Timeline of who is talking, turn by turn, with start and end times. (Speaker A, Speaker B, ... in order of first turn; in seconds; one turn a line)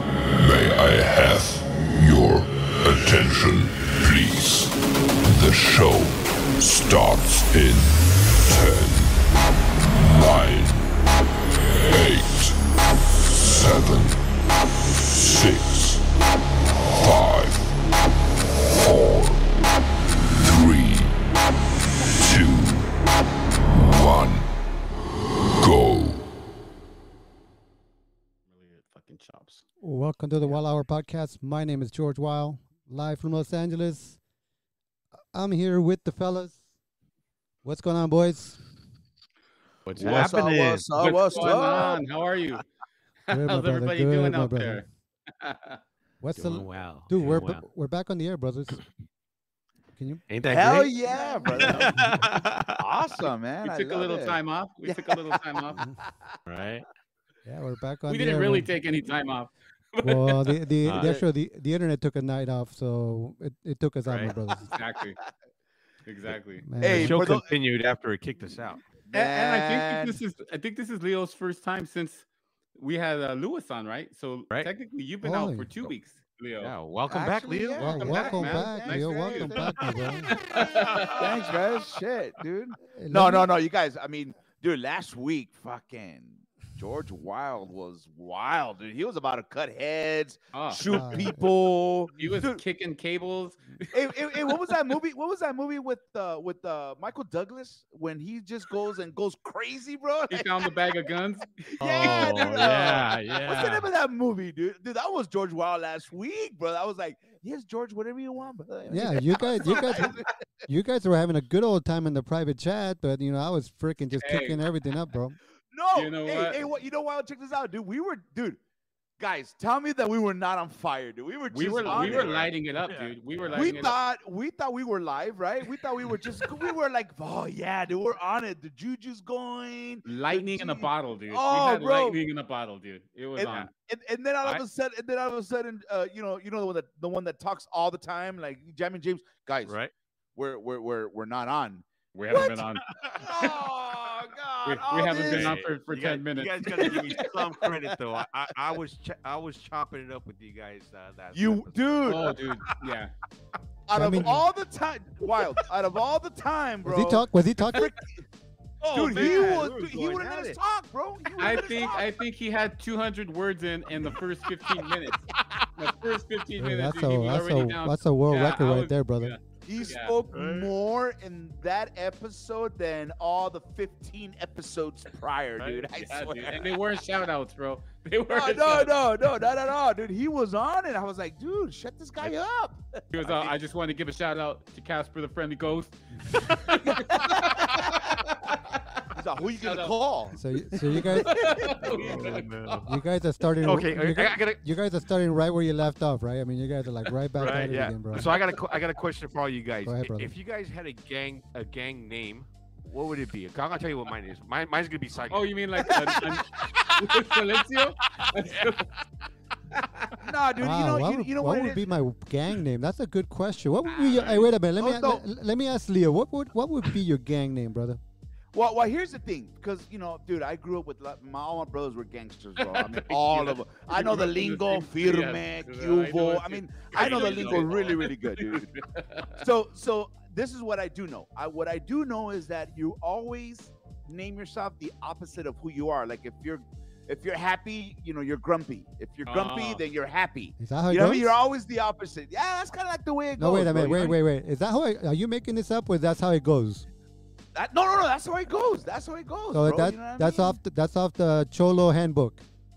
Speaker A: 0.3-9.2
Speaker A: 9.8-10.9
Speaker A: 11.7-12.6
Speaker A: 13.3-14.2
Speaker A: 15.0-16.0
Speaker A: 16.7-17.8
Speaker A: 18.6-19.4
Speaker A: 20.3-21.1
Speaker A: 22.0-22.9
Speaker A: 23.7-24.5
Speaker A: 25.6-26.3
Speaker B: 28.5-29.6
Speaker C: 29.8-34.2
Speaker C: 35.3-36.6
Speaker C: 37.6-38.6
Speaker D: 39.8-41.8
Speaker E: 40.0-42.0
Speaker B: 41.0-42.6
Speaker B: 43.3-44.8
Speaker C: 43.3-44.8
Speaker B: 45.4-45.8
Speaker C: 46.2-48.8
Speaker D: 46.4-47.6
Speaker C: 50.0-50.2
Speaker D: 50.3-52.8
Speaker E: 50.5-52.1
Speaker B: 51.1-51.9
Speaker C: 51.6-52.3
Speaker E: 52.8-56.3
Speaker B: 53.6-55.8
Speaker D: 56.5-56.9
Speaker C: 57.5-58.7
Speaker B: 58.1-60.6
Speaker C: 60.0-64.7
Speaker D: 60.8-61.2
Speaker D: 64.0-64.3
Speaker B: 64.6-65.2
Speaker B: 66.0-66.7
Speaker C: 66.6-67.4
Speaker E: 66.8-67.5
Speaker D: 66.8-68.8
Speaker E: 69.1-70.2
Speaker B: 69.1-72.2
Speaker B: 72.8-76.7
Speaker C: 75.2-75.9
Speaker D: 76.6-78.1
Speaker E: 77.1-79.9
Speaker C: 77.8-80.4
Speaker B: 77.9-79.7
Speaker D: 79.8-82.0
Speaker B: 80.3-81.3
Speaker E: 81.0-92.6
Speaker C: 82.9-83.5
Speaker B: 90.5-90.8
Speaker C: 90.8-91.5
Speaker B: 92.2-94.7
Speaker E: 93.9-100.7
Speaker B: 100.3-103.1
Speaker E: 101.8-110.3
Speaker D: 101.9-103.9
Speaker C: 108.9-115.4
Speaker B: 114.2-114.6
Speaker E: 115.7-118.6
Speaker B: 115.9-116.6
Speaker E: 119.2-122.4
Speaker B: 121.5-124.0
Speaker D: 121.8-123.9
Speaker E: 123.5-132.2
Speaker B: 130.0-133.7
Speaker E: 133.3-139.7
Speaker D: 139.7-139.9
Speaker E: 140.3-142.5
Speaker B: 142.1-142.9
Speaker D: 142.3-144.0
Speaker E: 143.1-145.6
Speaker B: 144.6-147.2
Speaker D: 144.9-152.3
Speaker E: 146.7-147.8
Speaker E: 151.3-152.3
Speaker B: 152.0-153.1
Speaker E: 153.9-158.2
Speaker C: 153.9-154.4
Speaker C: 156.8-157.9
Speaker D: 158.8-160.6
Speaker E: 158.9-162.1
Speaker B: 159.1-159.6
Speaker B: 161.4-170.2
Speaker C: 166.6-169.3
Speaker E: 169.6-176.8
Speaker D: 170.3-170.8
Speaker B: 175.6-178.9
Speaker E: 178.3-183.5
Speaker B: 183.1-189.9
Speaker E: 187.1-187.9
Speaker E: 189.1-192.1
Speaker C: 190.3-191.4
Speaker B: 191.0-192.8
Speaker D: 191.7-192.9
Speaker C: 192.8-198.3
Speaker D: 193.6-194.6
Speaker D: 197.3-208.7
Speaker E: 197.4-197.9
Speaker B: 198.2-198.8
Speaker C: 199.8-200.3
Speaker B: 205.3-208.9
Speaker B: 209.7-210.2
Speaker E: 210.2-211.8
Speaker C: 210.6-218.0
Speaker B: 213.9-214.5
Speaker E: 214.8-215.2
Speaker E: 218.5-228.7
Speaker B: 222.6-229.4
Speaker D: 227.0-227.9
Speaker E: 229.3-244.2
Speaker B: 239.2-239.8
Speaker C: 240.6-241.4
Speaker C: 243.4-246.8
Speaker E: 247.5-250.6
Speaker C: 249.5-252.4